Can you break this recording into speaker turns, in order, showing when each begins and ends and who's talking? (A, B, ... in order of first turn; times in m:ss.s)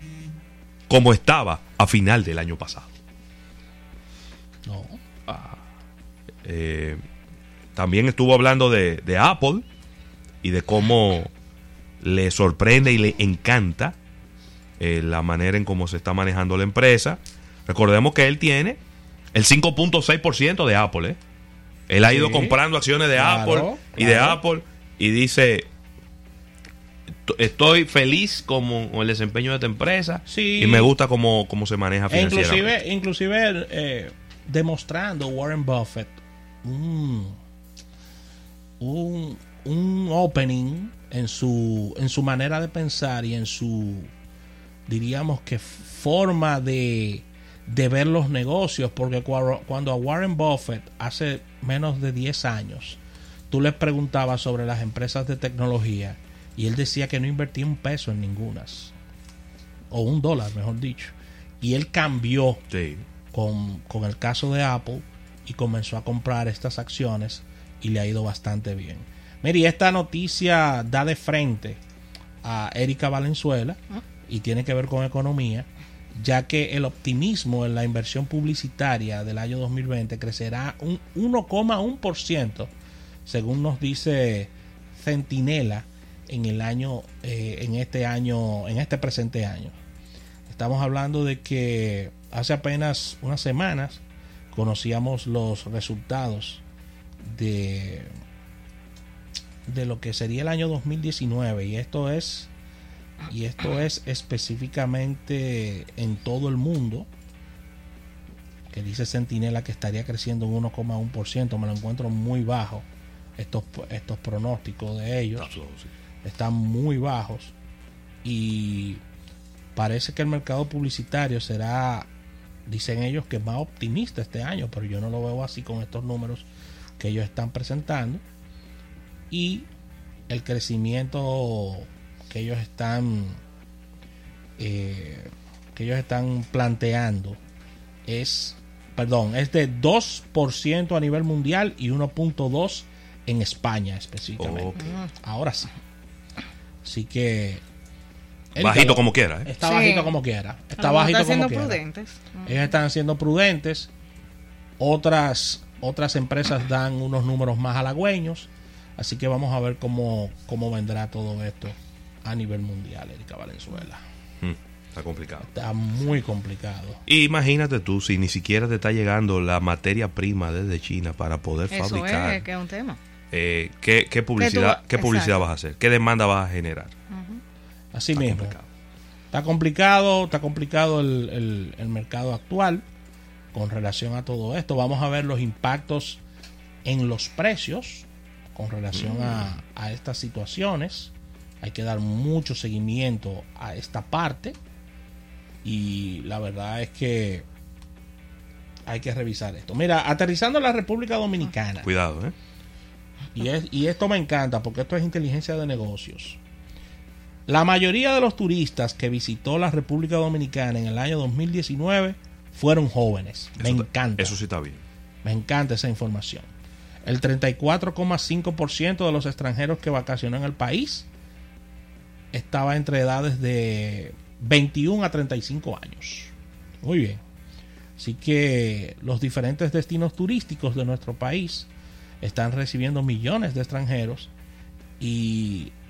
0:00.9-0:02.9 A
0:04.6-0:05.0 B
0:05.3-0:05.6 A
0:06.4-0:07.0 A
0:07.8-0:09.6 A
0:10.4-0:11.3 A
0:12.0-0:13.9 A
0:14.8-0:18.8 A
0:19.3-0:21.2 A
0:21.9-0:25.7 A
0:22.0-0:22.6 B
0:23.1-0:24.4 B
0:27.2-0:32.8 A
0:30.3-0:30.9 B
0:32.1-0:37.4 B
0:38.8-0:44.1 B
0:44.9-0:58.9 B
0:59.9-1:02.6 B
1:02.7-1:03.0 A
1:03.3-1:11.8 B
1:12.4-1:22.7 B
1:23.2-1:29.8 B
1:30.4-1:36.6 B
1:37.2-1:38.1 B
1:39.6-1:42.5 B
1:43.3-1:47.1 B
1:48.7-1:55.6 B
1:55.4-1:55.9 A
1:56.2-1:57.5 B
1:58.2-1:59.0 B
1:59.7-2:02.1 B
2:02.6-2:06.5 B
2:07.0-2:08.2 B
2:09.3-2:09.7 B
2:10.3-2:13.4 B
2:14.6-2:17.4 B
2:18.0-2:25.7 B
2:24.4-2:25.0 A
2:26.8-2:27.6 B
2:28.5-2:31.8 B
2:28.6-2:29.5 A
2:29.6-2:30.2 C
2:30.8-2:32.6 C
2:32.4-2:33.9 B
2:34.8-2:44.0 B
2:44.4-2:45.5 A
2:45.4-2:47.0 B
2:47.1-2:52.4 A
2:51.7-2:53.0 C
2:53.3-2:56.9 A
2:54.4-2:55.4 C
2:57.1-2:57.4 C
2:57.9-2:58.6 B
2:58.1-2:58.7 A
2:59.3-3:02.8 B
3:03.5-3:06.2 B
3:06.8-3:14.6 B
3:08.9-3:09.4 A
3:15.6-3:17.4 B
3:18.9-3:21.9 B
3:21.8-3:22.3 A
3:23.3-3:26.4 B
3:27.5-3:34.4 B
3:33.6-3:34.8 A
3:35.2-3:36.5 B
3:37.0-3:41.1 B
3:42.3-3:47.2 B
3:48.0-3:51.7 B
3:52.2-3:54.3 B
3:55.0-3:55.7 B